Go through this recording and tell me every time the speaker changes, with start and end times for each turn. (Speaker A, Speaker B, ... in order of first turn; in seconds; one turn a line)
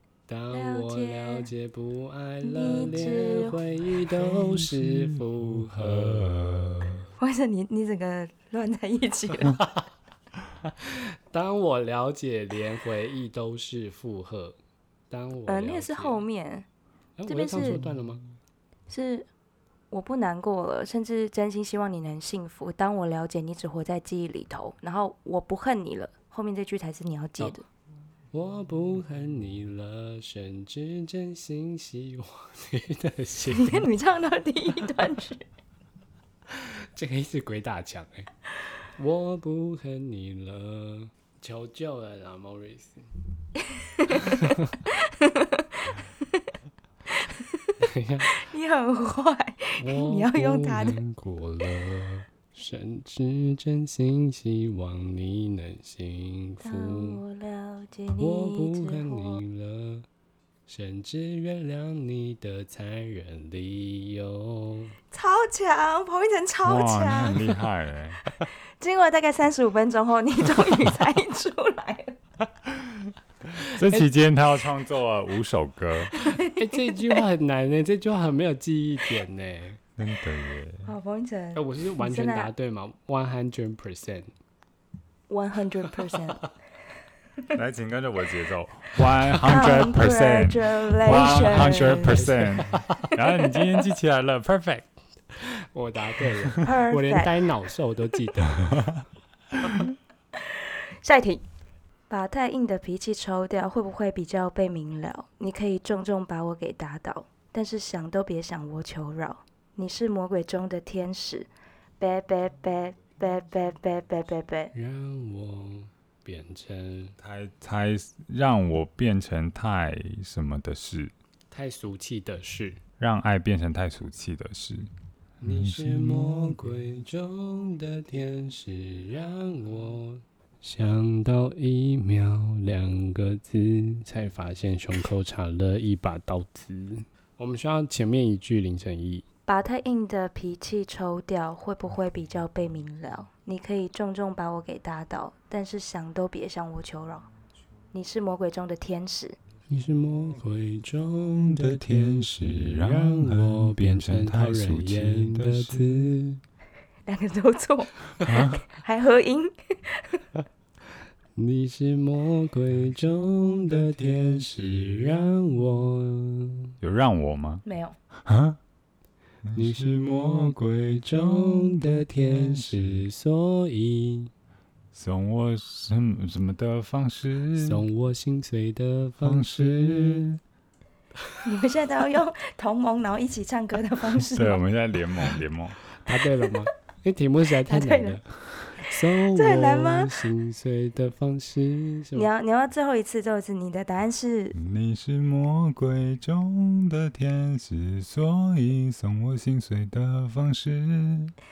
Speaker A: 0.3-7.0
Speaker B: 0.5-1.5
Speaker B: 2.4-3.6
Speaker C: 4.2-7.0
Speaker B: 7.2-9.6
Speaker A: 10.7-14.6
Speaker A: 15.1-16.2
Speaker B: 15.5-16.7
Speaker A: 17.2-18.2
Speaker B: 17.3-17.8
Speaker B: 18.9-19.3
Speaker B: 19.9-27.6
Speaker A: 28.3-33.9
Speaker B: 33.5-35.4
Speaker A: 36.5-38.3
Speaker A: 39.0-43.1
Speaker B: 44.0-44.2
Speaker A: 44.3-44.7
Speaker B: 45.0-45.9
Speaker A: 47.8-48.4
Speaker B: 48.3-51.0
Speaker A: 49.8-57.2
Speaker B: 56.6-59.4
Speaker A: 58.2-60.1
Speaker A: 60.7-64.9
Speaker B: 65.1-67.5
Speaker C: 66.6-68.2
Speaker B: 68.8-72.2
Speaker C: 72.7-73.1
Speaker C: 73.7-76.1
Speaker B: 76.2-77.0
Speaker A: 76.4-79.8
Speaker C: 80.0-80.9
Speaker B: 80.8-82.5
Speaker A: 81.5-84.3
Speaker B: 85.3-86.5
Speaker C: 87.5-94.9
Speaker B: 89.4-92.3
Speaker A: 91.1-93.1
Speaker A: 95.3-98.7
Speaker B: 96.6-97.3
Speaker B: 101.0-101.4
Speaker B: 102.1-111.5
Speaker B: 112.0-114.7
Speaker A: 114.7-117.2
Speaker C: 117.2-121.1
Speaker A: 121.5-122.8
Speaker C: 123.0-124.9
Speaker A: 125.4-139.2
Speaker C: 125.5-126.6
Speaker B: 139.5-147.3
Speaker B: 147.9-149.4
Speaker A: 149.7-156.4
Speaker C: 151.5-156.2
Speaker B: 157.1-160.2
Speaker C: 158.3-158.6
Speaker A: 161.4-166.7
Speaker C: 166.8-167.7
Speaker B: 167.7-167.9
Speaker C: 168.2-168.6
Speaker C: 169.4-173.1
Speaker A: 169.6-174.3
Speaker C: 174.9-177.8
Speaker A: 177.6-180.3
Speaker C: 179.2-180.4
Speaker B: 181.4-184.6
Speaker C: 184.2-185.8
Speaker A: 185.9-192.3
Speaker B: 187.7-188.2
Speaker B: 189.2-190.1
Speaker B: 192.2-194.6
Speaker C: 194.6-201.3